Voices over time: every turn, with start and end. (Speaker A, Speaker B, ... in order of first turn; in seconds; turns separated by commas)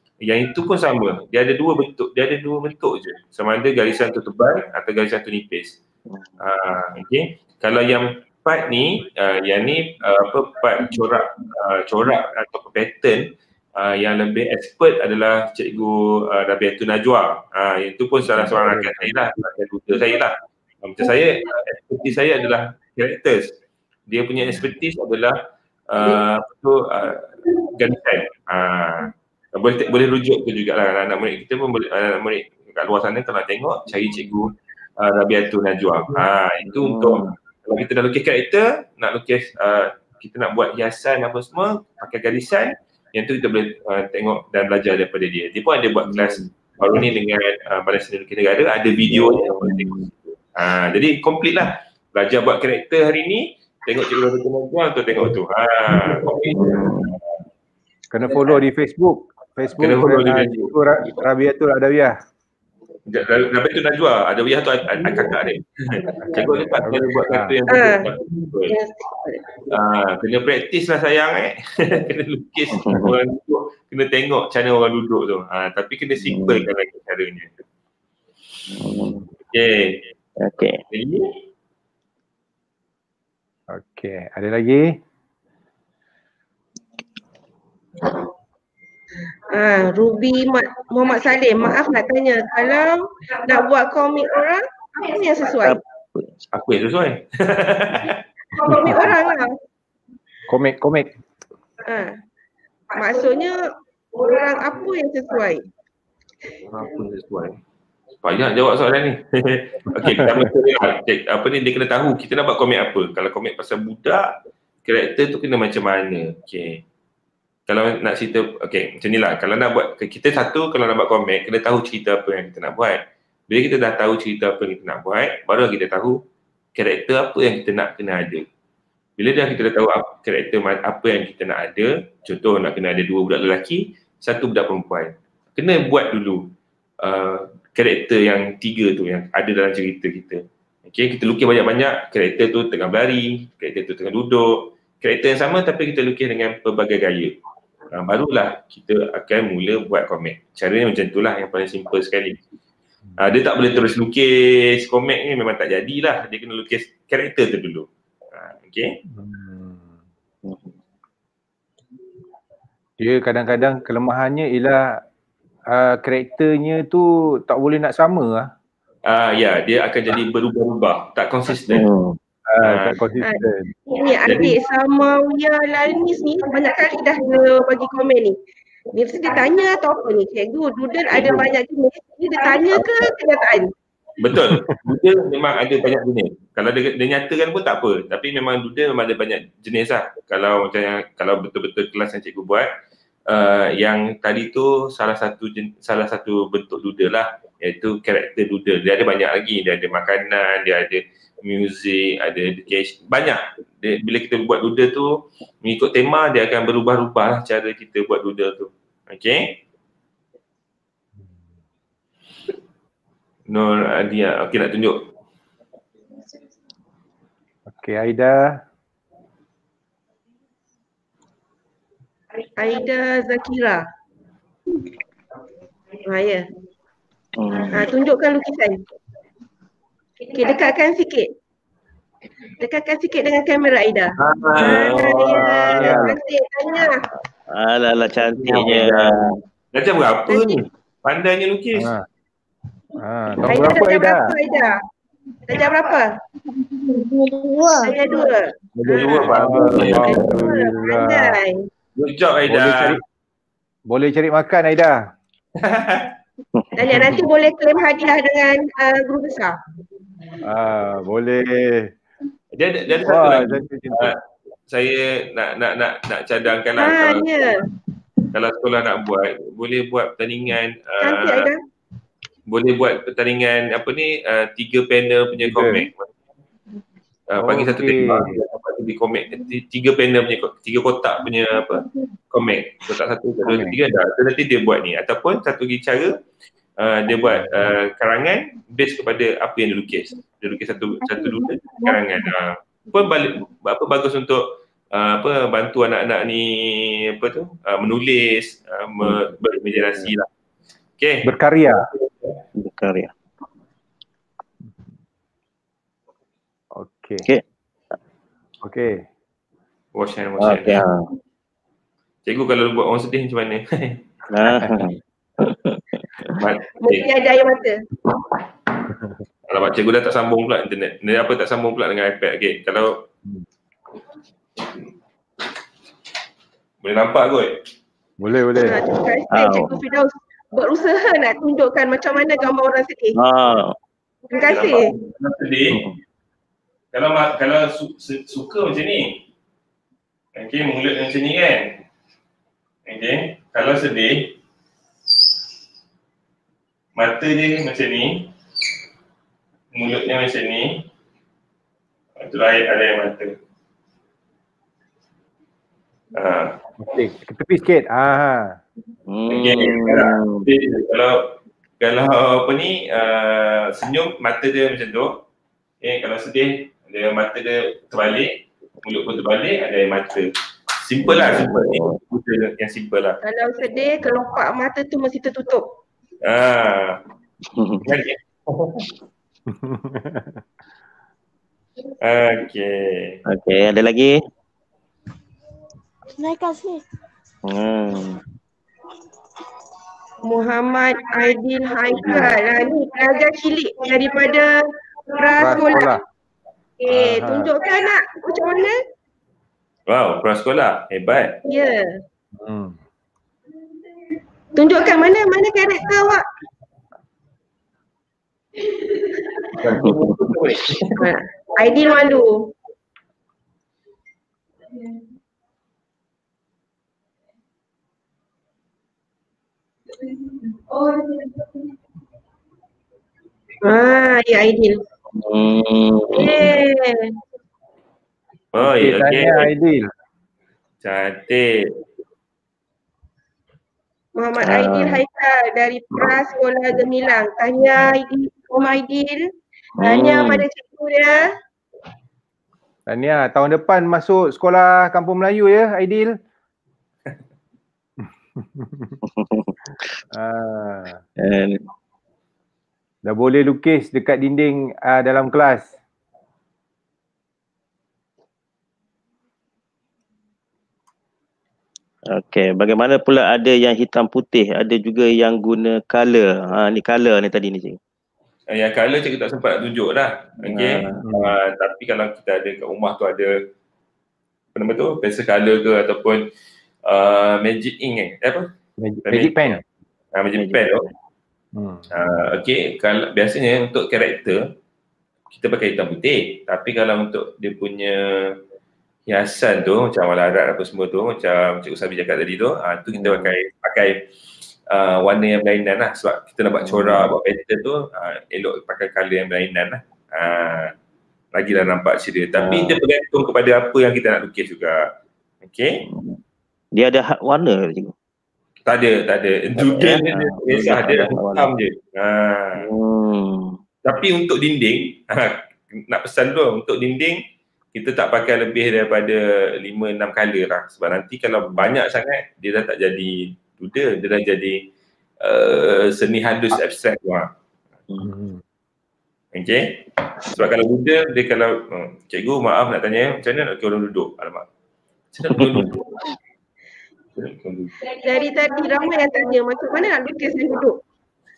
Speaker A: 0.2-5.8, Speaker B: 6.1-6.3, Speaker A: 6.4-25.4, Speaker C: 18.3-19.2, Speaker A: 25.9-57.2, Speaker B: 36.7-37.3, Speaker B: 46.1-46.5, Speaker B: 49.1-50.1, Speaker B: 56.5-57.1, Speaker C: 58.1-62.1, Speaker A: 59.7-61.2, Speaker A: 63.0-68.8, Speaker C: 66.2-67.5, Speaker D: 67.7-68.1, Speaker D: 68.7-69.4, Speaker A: 69.7-77.6, Speaker B: 72.7-73.1, Speaker B: 76.2-76.7, Speaker B: 78.7-79.2, Speaker A: 79.5-80.0, Speaker B: 80.4-80.8, Speaker A: 80.9-81.3, Speaker C: 83.7-85.0, Speaker D: 89.5-95.8, Speaker B: 95.6-96.3, Speaker A: 96.5-98.2, Speaker D: 98.5-99.5, Speaker C: 98.6-99.1, Speaker C: 100.5-101.1, Speaker D: 101.8-102.1, Speaker D: 102.9-103.6, Speaker D: 104.1-105.6, Speaker A: 106.6-107.6, Speaker A: 108.2-116.8, Speaker C: 109.9-110.5, Speaker A: 117.7-126.2, Speaker A: 126.7-128.5, Speaker A: 129.2-147.4, Speaker A: 147.9-152.4, Speaker A: 153.2-158.9, Speaker C: 159.1-159.9, Speaker B: 160.4-160.7, Speaker C: 163.0-165.0, Speaker C: 165.7-168.5, Speaker A: 169.0-171.9, Speaker B: 171.7-172.2, Speaker C: 172.5-173.7, Speaker A: 172.6-173.0, Speaker D: 173.2-178.4, Speaker A: 174.2-174.6, Speaker D: 178.9-183.7, Speaker A: 181.1-181.5, Speaker A: 184.2-192.7, Speaker C: 184.4-184.8, Speaker A: 193.3-209.6, Speaker A: 213.5-215.0, Speaker C: 217.7-218.6, Speaker D: 222.6-223.8, Speaker D: 226.0-226.5, Speaker B: 227.4-227.9, Speaker D: 227.7-228.8, Speaker D: 230.2-231.3, Speaker D: 232.6-237.1, Speaker A: 234.2-235.9, Speaker B: 235.3-236.1, Speaker C: 235.7-236.1, Speaker B: 237.5-239.4, Speaker A: 238.3-241.9, Speaker D: 240.3-240.6, Speaker C: 241.7-242.1, Speaker C: 243.0-244.4, Speaker D: 243.4-244.8, Speaker D: 245.5-246.1, Speaker E: 246.8-248.3, Speaker D: 247.8-249.3, Speaker A: 248.7-250.5, Speaker C: 249.1-251.4, Speaker D: 250.0-251.7, Speaker A: 252.0-253.0, Speaker C: 252.5-253.0, Speaker C: 253.9-255.0, Speaker A: 255.6-256.1, Speaker B: 256.6-257.1, Speaker D: 256.7-259.5, Speaker C: 260.4-261.9, Speaker A: 262.5-267.4, Speaker C: 263.0-264.1, Speaker D: 266.8-267.6, Speaker A: 268.3-271.5, Speaker D: 271.0-271.6, Speaker A: 272.5-276.1, Speaker C: 275.4-275.8, Speaker A: 277.3-286.1, Speaker C: 277.4-278.4, Speaker C: 283.4-283.8, Speaker A: 286.8-300.2, Speaker A: 301.0-301.9, Speaker C: 301.2-301.9, Speaker B: 302.6-303.1, Speaker C: 306.7-307.2, Speaker C: 308.6-309.0, Speaker A: 309.9-310.8, Speaker B: 310.4-311.1, Speaker A: 312.2-314.0, Speaker B: 314.3-316.4, Speaker A: 316.3-317.1, Speaker D: 316.8-317.8, Speaker A: 319.5-323.1, Speaker A: 326.8-327.5, Speaker C: 328.2-328.9, Speaker D: 328.6-333.2, Speaker B: 329.3-329.8, Speaker B: 333.1-333.7, Speaker D: 334.3-334.9, Speaker A: 334.4-335.8, Speaker B: 335.7-336.0, Speaker A: 336.9-339.2, Speaker A: 340.4-341.8, Speaker A: 342.9-344.3, Speaker A: 346.9-348.3, Speaker A: 349.7-350.8, Speaker A: 352.2-353.3, Speaker A: 356.1-356.6, Speaker C: 356.8-358.6, Speaker B: 359.1-360.5, Speaker A: 359.3-365.2, Speaker A: 365.8-370.3, Speaker A: 370.8-373.2, Speaker B: 371.0-372.0, Speaker D: 373.2-375.6, Speaker A: 376.2-377.0, Speaker B: 377.5-377.9, Speaker A: 377.8-378.9, Speaker C: 379.5-380.4, Speaker A: 382.0-383.2, Speaker B: 383.3-384.1, Speaker E: 386.2-386.8, Speaker B: 387.4-388.2, Speaker D: 390.2-396.0, Speaker B: 392.0-392.3, Speaker C: 395.4-396.0, Speaker D: 396.8-398.8, Speaker C: 396.9-397.5, Speaker A: 399.9-401.4, Speaker D: 401.5-402.0, Speaker C: 402.4-402.8, Speaker D: 404.5-406.2, Speaker A: 409.6-411.0, Speaker B: 409.7-410.1, Speaker C: 409.8-410.6, Speaker D: 411.0-412.5, Speaker D: 423.6-424.8, Speaker B: 425.1-426.5, Speaker D: 426.1-427.2, Speaker A: 428.5-429.5, Speaker C: 428.6-429.9, Speaker A: 430.8-431.7, Speaker D: 434.1-439.3, Speaker B: 434.4-435.0, Speaker B: 439.8-440.4, Speaker D: 439.8-441.2, Speaker C: 442.9-446.1, Speaker C: 448.0-448.9, Speaker B: 449.0-449.6, Speaker C: 450.1-451.0, Speaker B: 451.2-451.6, Speaker C: 453.0-455.7, Speaker B: 462.1-467.8, Speaker A: 468.5-473.4, Speaker B: 470.4-471.0, Speaker C: 471.0-471.4, Speaker A: 474.5-476.3, Speaker A: 476.8-478.5, Speaker C: 478.8-479.6, Speaker A: 479.1-479.6, Speaker A: 480.1-480.9, Speaker B: 480.4-480.6, Speaker C: 481.5-481.9, Speaker A: 481.9-484.5, Speaker A: 485.3-488.4, Speaker A: 489.1-494.0, Speaker B: 492.9-493.4, Speaker A: 494.7-500.7, Speaker B: 496.6-497.1, Speaker A: 501.3-504.9, Speaker B: 502.4-502.8, Speaker A: 505.4-505.8, Speaker B: 505.9-506.2, Speaker B: 506.8-507.9, Speaker A: 508.6-512.6, Speaker B: 509.6-511.5, Speaker B: 512.6-513.5, Speaker A: 513.8-517.2, Speaker A: 517.7-524.6, Speaker A: 525.2-527.3, Speaker C: 528.0-528.4, Speaker A: 529.3-534.5, Speaker A: 535.1-536.0, Speaker B: 535.3-535.8, Speaker A: 537.1-537.7, Speaker D: 537.9-540.8